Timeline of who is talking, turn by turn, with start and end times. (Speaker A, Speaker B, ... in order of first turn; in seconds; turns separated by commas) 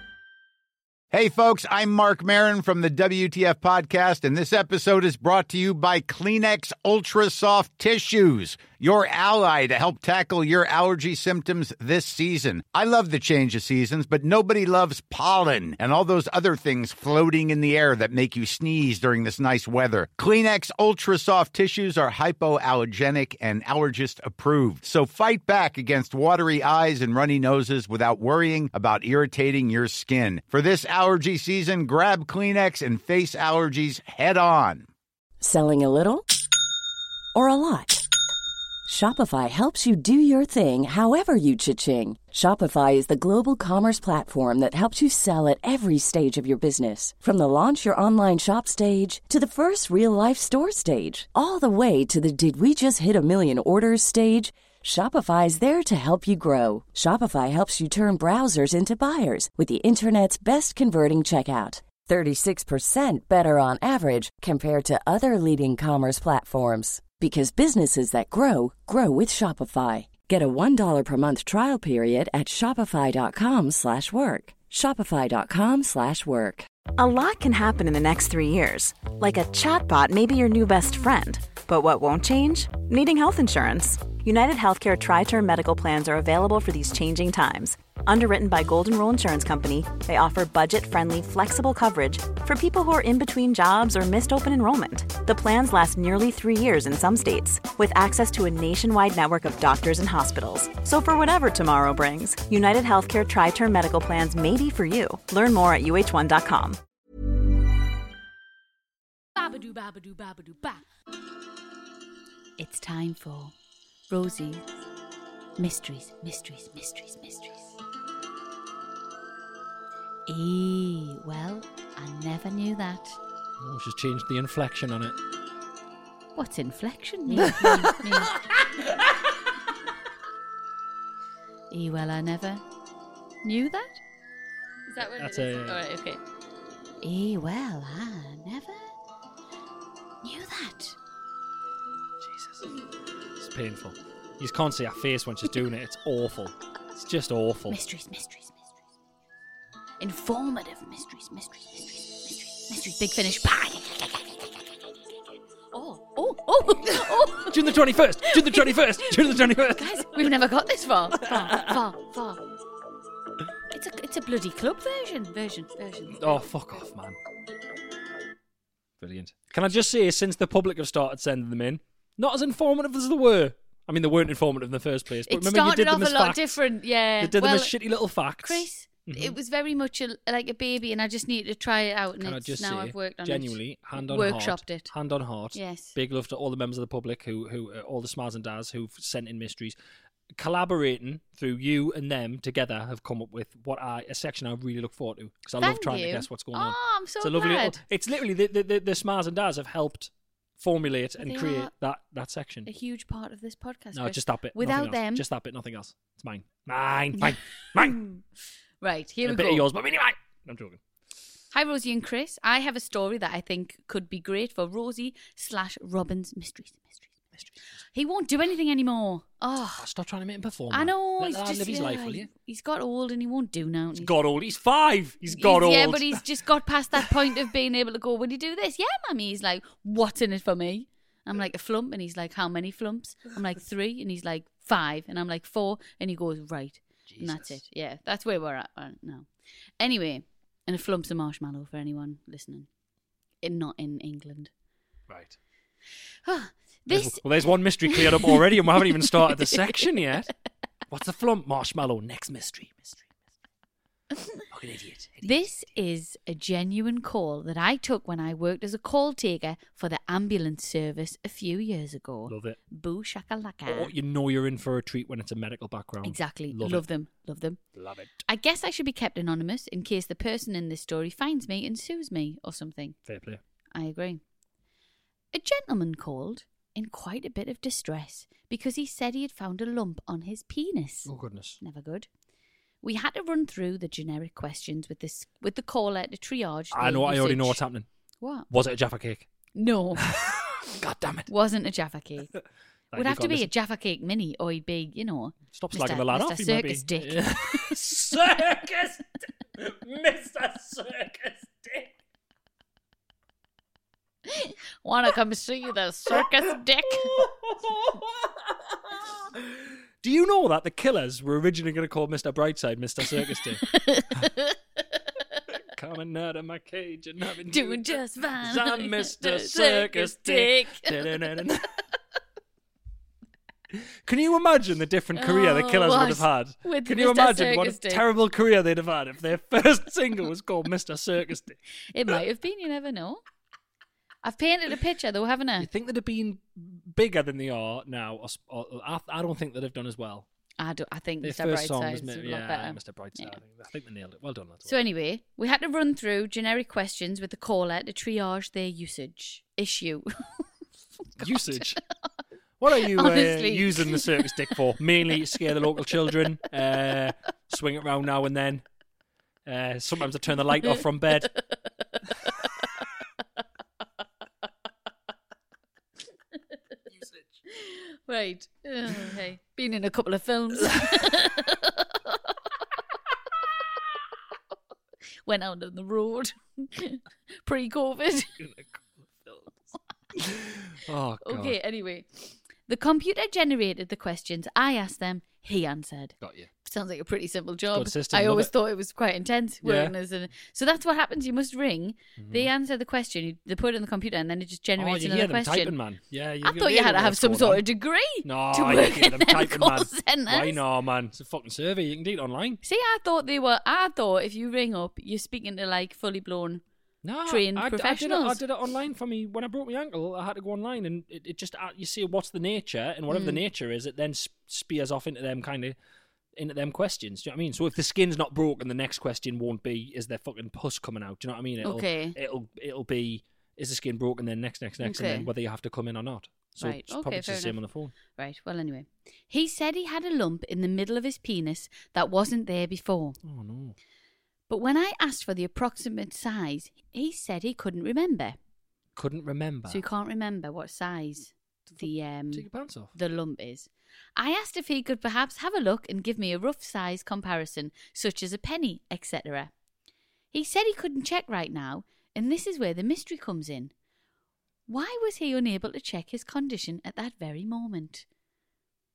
Speaker A: 1.1-34.9, Speaker B: 35.4-36.2, Speaker B: 37.3-38.1, Speaker B: 38.9-76.7, Speaker C: 77.0-106.8, Speaker D: 109.4-110.8, Speaker D: 112.6-113.5, Speaker D: 114.1-114.7, Speaker D: 115.6-117.8, Speaker D: 120.3-123.2, Speaker E: 123.6-125.1, Speaker D: 126.3-128.4, Speaker E: 127.3-128.9, Speaker D: 131.7-132.6, Speaker D: 133.4-134.0, Speaker D: 134.9-136.2, Speaker E: 135.1-135.8, Speaker D: 137.0-138.9, Speaker D: 140.2-141.0, Speaker E: 142.2-142.7, Speaker E: 143.4-147.8, Speaker D: 147.7-148.5, Speaker D: 150.0-154.2, Speaker D: 155.7-157.6, Speaker E: 157.0-160.3, Speaker D: 158.2-162.4, Speaker E: 161.2-161.8, Speaker D: 163.7-166.5, Speaker E: 166.1-167.2, Speaker E: 169.0-176.6, Speaker D: 175.3-177.7, Speaker E: 177.2-179.3, Speaker D: 178.4-184.9, Speaker E: 182.2-189.8, Speaker D: 185.5-185.9, Speaker E: 190.3-202.7, Speaker D: 195.6-197.8, Speaker D: 201.2-201.7, Speaker D: 202.7-205.2, Speaker E: 203.9-208.0, Speaker D: 207.2-208.2, Speaker D: 208.8-209.7, Speaker E: 209.2-210.8, Speaker D: 211.5-217.1, Speaker D: 217.9-219.8, Speaker E: 219.8-222.3, Speaker D: 220.7-224.1, Speaker E: 224.0-226.2, Speaker D: 225.3-239.3, Speaker E: 237.1-237.6, Speaker D: 239.8-242.7, Speaker D: 243.4-244.5, Speaker E: 245.1-245.4, Speaker D: 246.2-247.2, Speaker E: 246.9-250.3, Speaker D: 247.8-248.4, Speaker D: 249.2-249.8, Speaker E: 250.9-253.1, Speaker E: 254.5-255.5, Speaker D: 255.2-263.9, Speaker E: 262.3-262.6, Speaker E: 263.7-266.8, Speaker D: 266.0-267.6, Speaker E: 267.8-268.2, Speaker D: 268.2-272.9, Speaker E: 273.1-273.4, Speaker D: 273.7-274.2, Speaker D: 275.3-281.1, Speaker E: 281.1-281.6, Speaker D: 281.6-282.1, Speaker D: 282.8-287.6, Speaker E: 286.7-287.9, Speaker D: 288.2-288.5, Speaker E: 288.5-289.3, Speaker D: 289.5-290.1, Speaker E: 290.0-291.3, Speaker D: 291.3-292.3, Speaker E: 292.9-293.5, Speaker D: 292.9-297.7, Speaker E: 295.5-301.9, Speaker D: 304.3-307.2, Speaker E: 307.0-313.6, Speaker D: 313.6-314.6, Speaker E: 315.7-321.7, Speaker D: 317.5-321.1, Speaker E: 324.0-331.6, Speaker D: 325.1-328.0, Speaker D: 331.9-333.2, Speaker D: 334.2-335.7, Speaker E: 335.6-340.2, Speaker D: 340.6-343.4, Speaker E: 341.2-344.8, Speaker D: 344.6-350.4, Speaker D: 351.2-351.6, Speaker E: 351.2-351.8, Speaker E: 352.6-358.6, Speaker D: 352.8-354.3, Speaker E: 359.4-361.3, Speaker D: 367.5-372.4, Speaker E: 370.7-371.2, Speaker D: 375.2-378.4, Speaker E: 378.4-379.6, Speaker E: 380.1-381.6, Speaker D: 381.2-395.8, Speaker E: 386.2-386.5, Speaker E: 387.7-388.5, Speaker E: 389.6-389.9, Speaker E: 392.2-392.5, Speaker E: 394.8-397.6, Speaker D: 396.4-400.6, Speaker E: 398.2-402.6, Speaker D: 402.6-406.6, Speaker E: 407.0-415.8, Speaker D: 407.2-408.4, Speaker D: 413.1-413.4, Speaker E: 416.4-427.9, Speaker D: 421.6-422.1, Speaker D: 424.8-425.3, Speaker D: 426.6-433.2, Speaker E: 433.2-433.8, Speaker D: 434.5-438.4, Speaker E: 438.9-439.8, Speaker D: 439.7-449.5, Speaker E: 441.8-442.9, Speaker D: 450.3-453.7, Speaker D: 454.7-458.0